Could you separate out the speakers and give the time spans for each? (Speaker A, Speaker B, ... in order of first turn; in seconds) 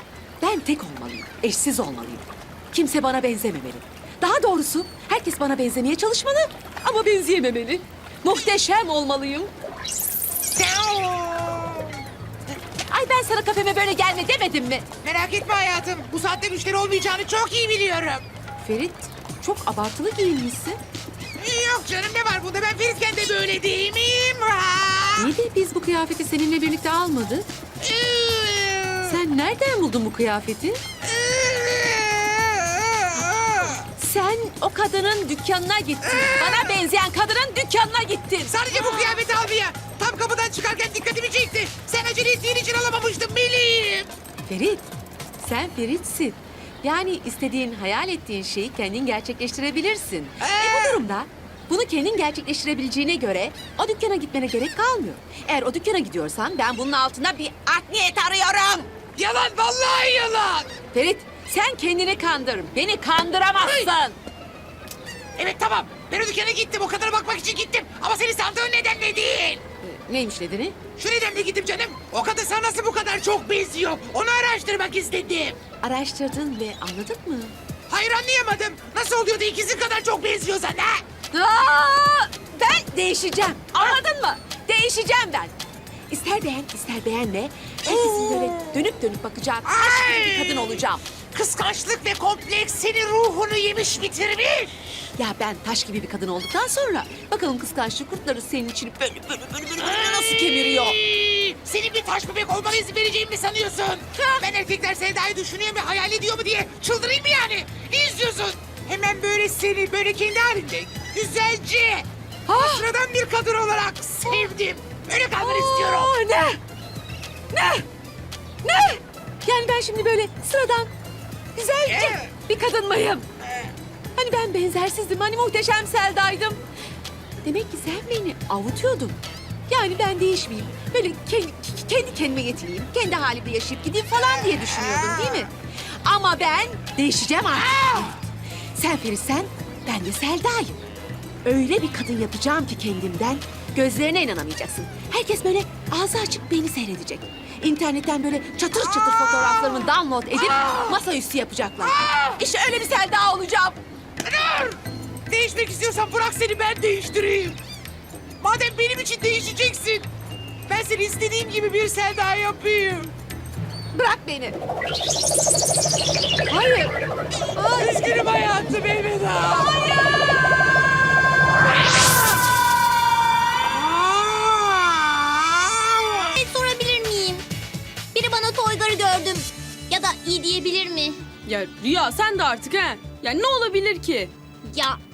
Speaker A: 0.4-9.5, 12.9-14.9, 18.6-20.8, 25.1-27.5, 29.0-30.8, 34.0-38.6, 44.5-58.9, 60.9-64.2, 69.8-70.8, 75.8-77.5, 81.3-85.5, 86.1-91.0, 95.2-101.0, 104.2-104.4, 112.5-112.9, 115.3-116.6, 117.5-117.8, 118.6-120.9, 121.5-123.2, 124.2-126.6, 127.4-135.5, 136.0-140.8, 141.4-153.8, 163.9-164.6, 166.5-166.9, 167.6-167.9
Speaker B: 10.5-11.9, 15.0-18.2, 21.4-25.3, 27.8-29.2, 31.0-33.8, 36.0-36.7, 38.5-44.1, 50.4-51.0, 59.1-60.7, 63.6-63.9, 65.4-69.6, 71.0-75.6, 77.9-81.0, 83.7-84.0, 87.8-88.5, 89.6-90.7, 91.3-94.7, 99.8-116.1, 121.9-122.2, 137.6-138.1, 150.4-151.0, 151.8-152.4, 154.2-154.8, 155.3-157.6, 158.4-160.1, 160.7-163.1, 167.7-169.8, 173.7-176.2
Speaker C: 176.3-177.4, 178.1-181.2, 184.7-185.0
Speaker D: 181.4-184.3